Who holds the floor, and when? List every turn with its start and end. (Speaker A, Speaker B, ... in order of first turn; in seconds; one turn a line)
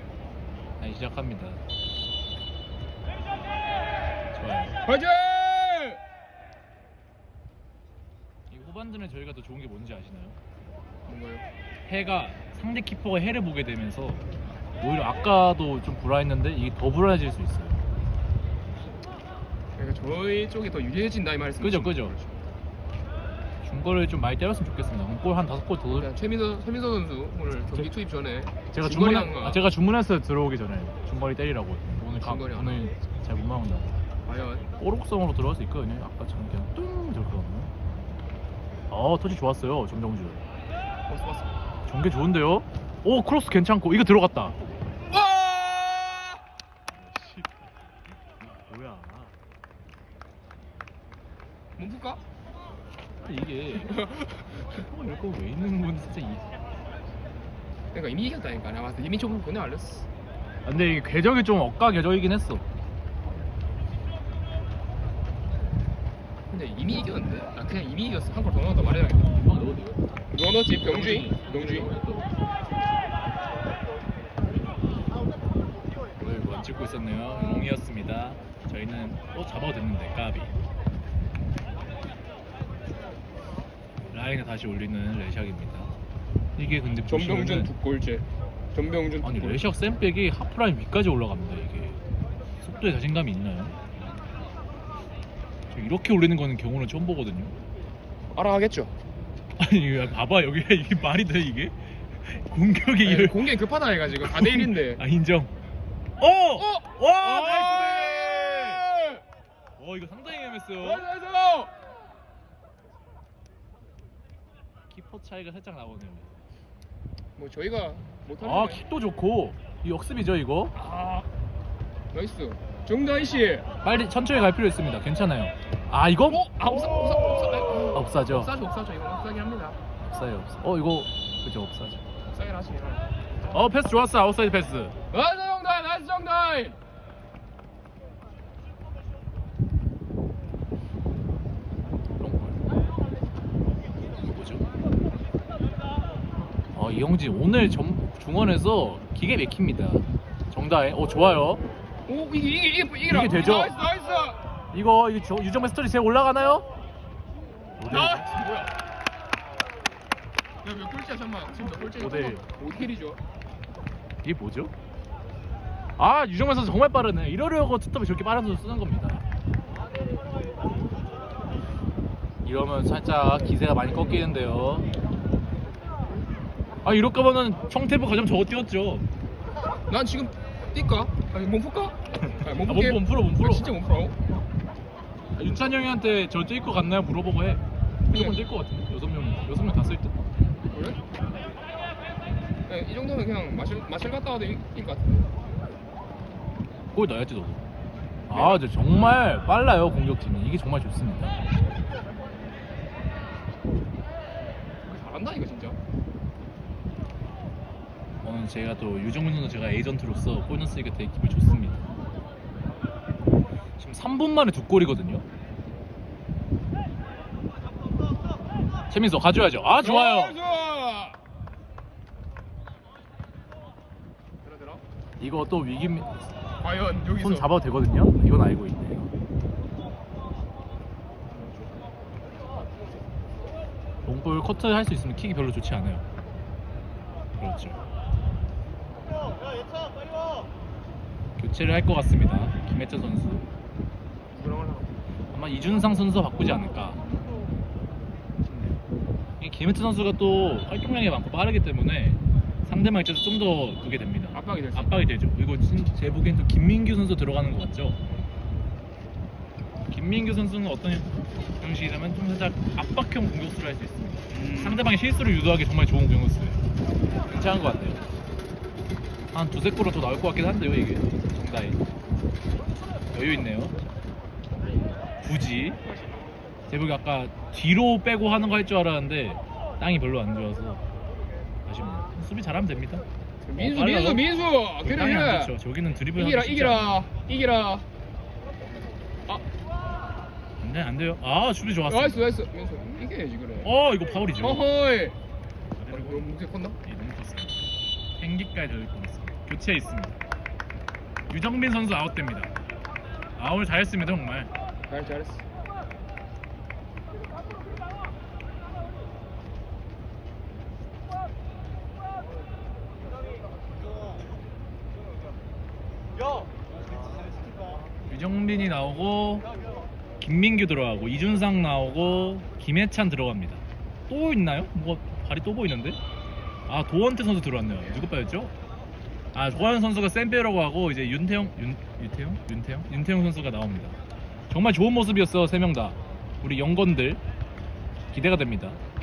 Speaker A: 0.8-1.6
Speaker A: 4.3-4.7
Speaker B: 4.8-6.0
Speaker A: 8.5-10.4
Speaker B: 11.1-11.4
Speaker A: 11.9-14.3
Speaker A: 14.8-17.8
Speaker B: 19.8-22.4
Speaker A: 21.6-22.1
Speaker A: 23.6-26.1
Speaker B: 25.9-29.6
Speaker A: 28.7-33.9
Speaker B: 32.2-32.9
Speaker B: 34.3-34.7
Speaker A: 34.8-37.7
Speaker A: 38.9-40.4
Speaker B: 41.1-41.5
Speaker A: 41.9-44.6
Speaker B: 45.1-46.4
Speaker A: 46.9-47.7
Speaker A: 48.4-49.4
Speaker B: 51.8-52.2
Speaker A: 53.2-56.5
Speaker B: 53.9-54.3
Speaker B: 57.9-60.1
Speaker A: 60.6-62.6
Speaker B: 66.5-69.3
Speaker A: 69.3-70.0
Speaker B: 70.3-71.9
Speaker A: 70.8-72.2
Speaker A: 76.2-80.5
Speaker A: 84.1-85.9
Speaker A: 86.6-87.7
Speaker B: 87.1-89.7
Speaker A: 89.2-92.0
Speaker A: 92.6-93.8
Speaker A: 95.7-97.5
Speaker B: 98.3-98.9
Speaker A: 99.6-103.5
Speaker B: 103.0-105.0
Speaker A: 104.2-105.5
Speaker A: 106.2-108.8
Speaker B: 106.6-109.2
Speaker A: 109.8-111.0
Speaker B: 110.8-111.7
Speaker A: 114.9-116.4
Speaker B: 117.4-118.8
Speaker A: 118.4-120.8
Speaker B: 120.8-121.3
Speaker B: 122.1-123.7
Speaker A: 123.8-126.4
Speaker B: 126.3-129.8
Speaker A: 127.9-128.5
Speaker A: 130.1-132.0
Speaker B: 132.3-133.1
Speaker A: 133.5-134.9
Speaker B: 135.1-136.8
Speaker A: 142.2-142.8
Speaker A: 144.1-144.7
Speaker A: 146.7-151.6
Speaker B: 152.1-154.4
Speaker A: 153.1-153.8
Speaker A: 154.7-156.7
Speaker A: 157.8-158.3
Speaker B: 157.9-158.7
Speaker B: 160.6-163.2
Speaker A: 162.0-162.4
Speaker A: 164.2-164.7
Speaker A: 166.0-169.2
Speaker A: 172.4-174.9
Speaker A: 176.8-179.1
Speaker B: 179.9-184.2
Speaker A: 182.6-183.7
Speaker A: 185.3-190.2
Speaker B: 188.1-188.4
Speaker B: 190.7-191.0
Speaker B: 192.7-195.3
Speaker A: 196.9-197.6
Speaker A: 198.3-201.4
Speaker B: 198.3-198.6
Speaker B: 204.8-205.8
Speaker A: 208.2-211.8
Speaker A: 213.8-215.2
Speaker A: 218.9-220.3
Speaker B: 219.8-221.2
Speaker B: 224.4-224.8
Speaker A: 225.2-226.3
Speaker B: 226.6-227.5
Speaker A: 227.2-229.1
Speaker B: 231.5-231.7
Speaker A: 234.1-236.1
Speaker A: 237.4-237.8
Speaker A: 241.4-243.5
Speaker B: 244.3-244.9
Speaker A: 245.3-247.0
Speaker A: 249.4-258.0
Speaker B: 254.3-255.1
Speaker A: 259.9-266.6
Speaker B: 264.3-264.8
Speaker A: 267.3-268.0
Speaker A: 269.3-271.8
Speaker A: 273.1-273.8
Speaker A: 275.2-275.8
Speaker A: 276.7-280.8
Speaker A: 281.6-283.1
Speaker B: 283.4-285.5
Speaker A: 283.6-284.2
Speaker A: 284.8-287.1
Speaker B: 286.1-287.9
Speaker A: 290.6-292.3
Speaker B: 291.9-293.7
Speaker A: 293.6-294.6
Speaker B: 294.4-295.2
Speaker A: 295.8-296.3
Speaker B: 295.9-296.8
Speaker A: 296.8-297.6
Speaker A: 298.2-300.2
Speaker A: 301.3-302.5
Speaker A: 303.4-304.5
Speaker B: 304.9-305.4
Speaker A: 318.1-319.5
Speaker A: 320.2-326.0
Speaker A: 326.7-328.5
Speaker A: 329.3-334.0
Speaker A: 334.5-337.2
Speaker A: 338.1-338.8